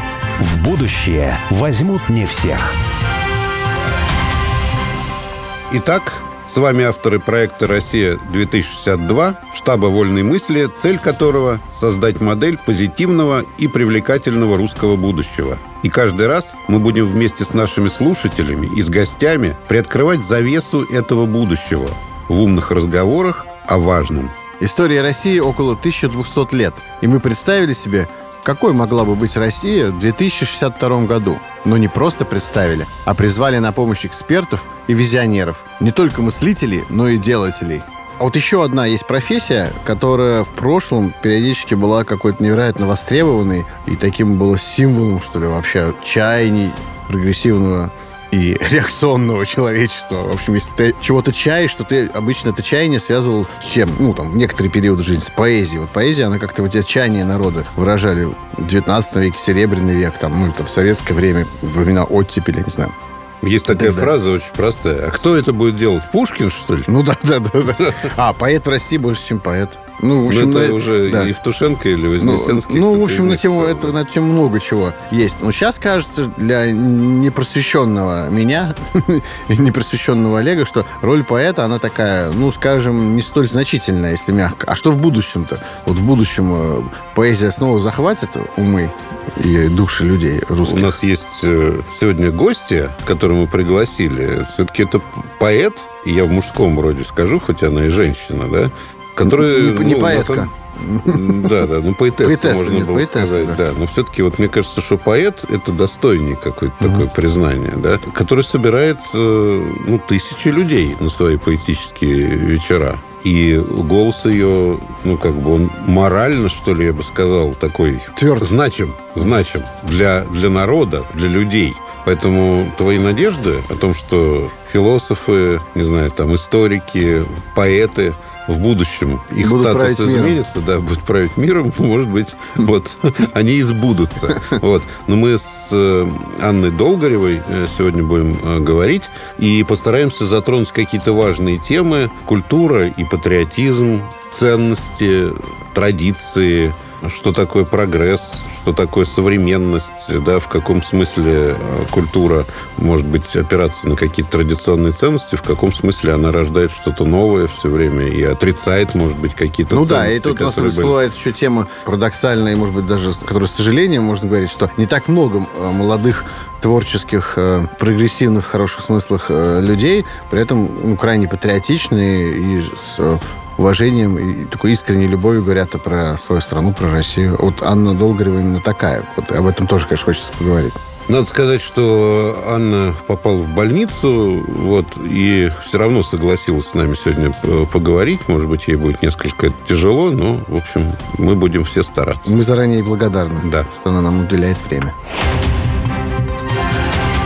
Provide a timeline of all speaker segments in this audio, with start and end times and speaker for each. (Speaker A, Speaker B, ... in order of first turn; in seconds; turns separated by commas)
Speaker A: 0.4-2.8, Speaker B: 5.7-24.3, Speaker C: 24.6-62.9, Speaker B: 63.4-66.9, Speaker C: 63.7-64.1, Speaker C: 66.9-71.3, Speaker B: 70.3-74.0, Speaker C: 72.2-91.0, Speaker B: 90.7-100.5, Speaker C: 99.2-101.7, Speaker B: 101.0-160.9, Speaker C: 102.2-103.6, Speaker C: 106.8-107.1, Speaker C: 118.2-118.5, Speaker C: 129.4-130.4, Speaker C: 159.7-180.8, Speaker B: 181.1-192.4, Speaker C: 192.3-194.9, Speaker B: 193.4-193.7